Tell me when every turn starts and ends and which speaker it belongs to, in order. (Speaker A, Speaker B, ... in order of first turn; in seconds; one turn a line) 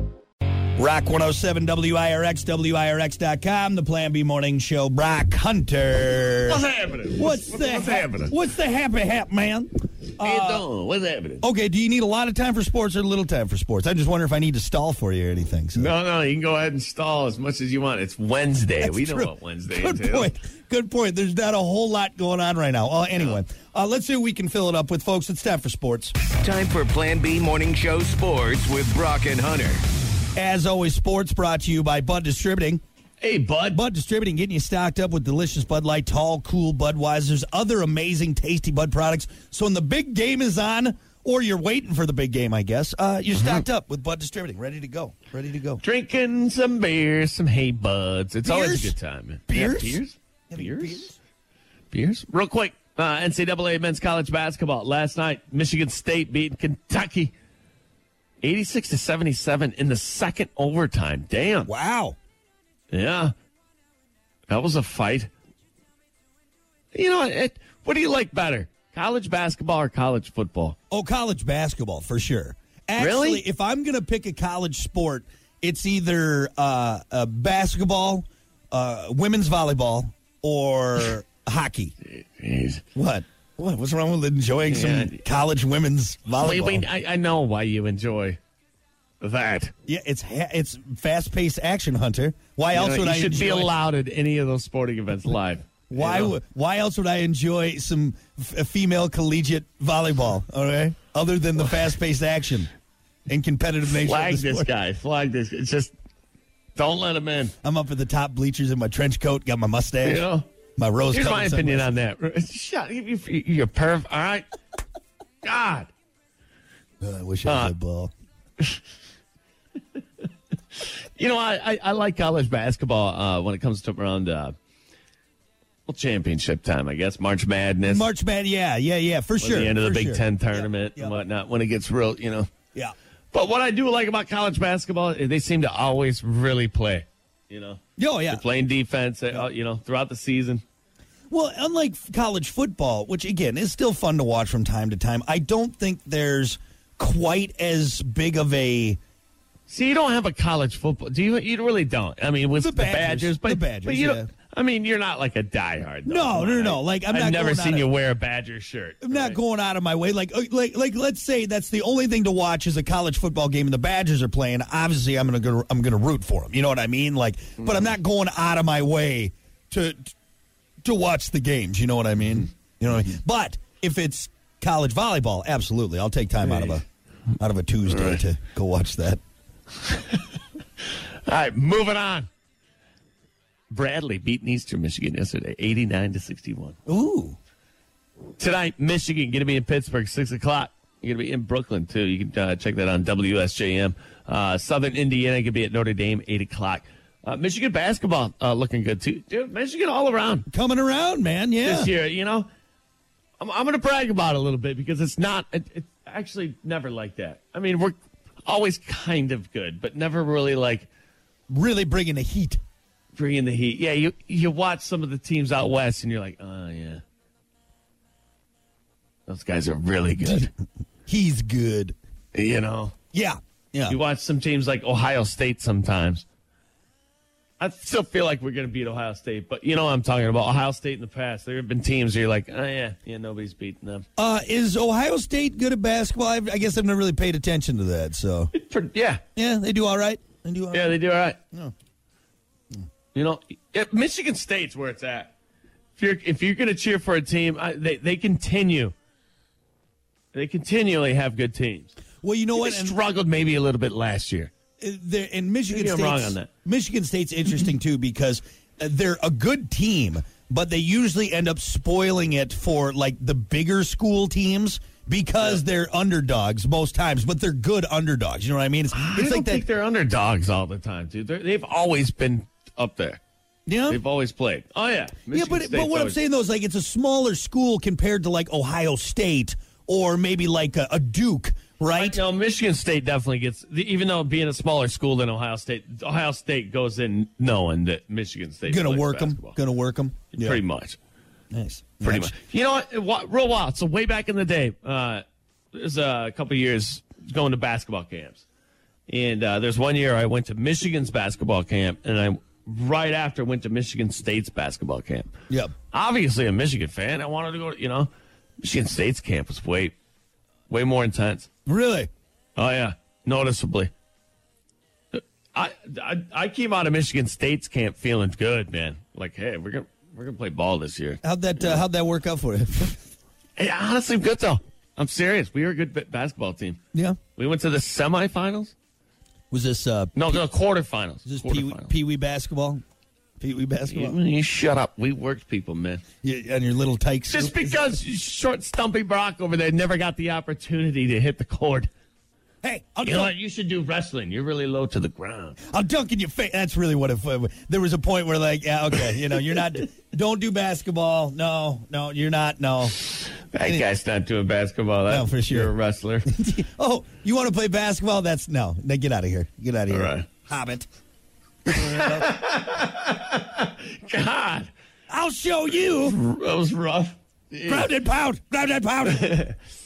Speaker A: 0.8-6.6
Speaker B: 6.5-8.3
Speaker A: 7.1-10.7
Speaker B: 10.2-11.4
Speaker A: 11.4-15.9
Speaker B: 15.7-20.3
Speaker A: 18.8-26.1
Speaker C: 26.3-29.8
Speaker A: 30.4-32.8
Speaker B: 33.2-33.8
Speaker A: 33.7-45.8
Speaker B: 45.8-51.1
Speaker A: 48.4-49.0
Speaker A: 49.5-51.2
Speaker B: 51.9-57.3
Speaker B: 58.4-61.7
Speaker A: 61.6-62.1
Speaker B: 62.9-63.3
Speaker B: 64.5-65.3
Speaker B: 66.9-70.8
Speaker A: 70.9-81.9
Speaker B: 73.0-73.4
Speaker B: 82.0-82.8
Speaker A: 82.9-86.8
Speaker B: 84.7-85.2
Speaker B: 86.4-88.4
Speaker B: 89.2-89.7
Speaker A: 89.8-93.7
Speaker B: 92.7-96.3
Speaker A: 95.9-102.7
Speaker A: 103.3-104.7
Speaker B: 103.9-105.9
Speaker B: 106.8-107.5
Speaker A: 107.6-110.2
Speaker B: 110.0-110.5
Speaker A: 110.8-111.9
Speaker B: 111.1-114.5
Speaker B: 115.4-115.9
Speaker A: 117.0-118.1
Speaker B: 117.4-117.7
Speaker B: 120.7-124.5
Speaker B: 125.9-128.1
Speaker A: 127.8-131.2
Speaker B: 129.4-132.5
Speaker B: 133.3-140.6
Speaker A: 138.0-138.4
Speaker A: 141.3-149.0
Speaker B: 149.7-159.4
Speaker A: 152.6-154.3
Speaker A: 156.1-157.9
Speaker A: 159.0-170.1
Speaker A: 170.8-176.8
Speaker B: 176.4-176.8
Speaker A: 177.4-179.2
Speaker B: 177.9-178.2
Speaker B: 179.8-180.2
Speaker B: 180.8-182.3
Speaker B: 183.7-186.8
Speaker A: 186.8-187.4
Speaker B: 188.4-200.4
Speaker A: 200.5-201.9
Speaker B: 201.6-202.5
Speaker B: 203.4-210.9
Speaker A: 211.5-212.6
Speaker B: 213.1-217.0
Speaker B: 219.3-220.5
Speaker A: 220.2-220.5
Speaker A: 221.1-222.0
Speaker B: 222.3-222.9
Speaker A: 223.1-224.0
Speaker B: 223.9-226.2
Speaker B: 227.6-234.1
Speaker A: 234.2-238.5
Speaker B: 238.5-239.2
Speaker A: 239.3-241.0
Speaker B: 240.7-241.4
Speaker B: 243.1-245.3
Speaker B: 246.0-248.9
Speaker B: 250.3-251.9
Speaker A: 252.2-253.0
Speaker B: 252.6-254.5
Speaker A: 254.8-269.6
Speaker B: 255.7-256.5
Speaker B: 268.9-273.2
Speaker A: 273.7-274.0
Speaker B: 273.9-276.2
Speaker A: 275.3-282.2
Speaker B: 281.9-289.6
Speaker A: 288.7-290.6
Speaker B: 290.3-291.0
Speaker A: 291.5-292.3
Speaker B: 292.0-298.4
Speaker B: 299.1-305.3
Speaker B: 305.9-309.9
Speaker B: 310.7-311.5
Speaker A: 311.6-312.1
Speaker B: 312.6-313.9
Speaker B: 315.1-321.8
Speaker A: 321.2-323.0
Speaker B: 323.6-326.8
Speaker B: 327.4-328.7
Speaker A: 329.5-330.4
Speaker B: 330.1-331.9
Speaker A: 331.2-332.8
Speaker A: 333.4-334.1
Speaker B: 333.9-336.0
Speaker A: 336.2-338.0
Speaker B: 337.3-341.9
Speaker A: 342.6-343.3
Speaker B: 343.0-345.6
Speaker A: 345.6-353.1
Speaker B: 353.5-356.3
Speaker A: 355.1-355.7
Speaker A: 356.2-360.9
Speaker B: 359.9-360.3
Speaker A: 361.7-362.3
Speaker B: 361.7-364.7
Speaker A: 365.1-366.2
Speaker B: 365.9-367.9
Speaker A: 367.7-369.5
Speaker B: 369.0-369.6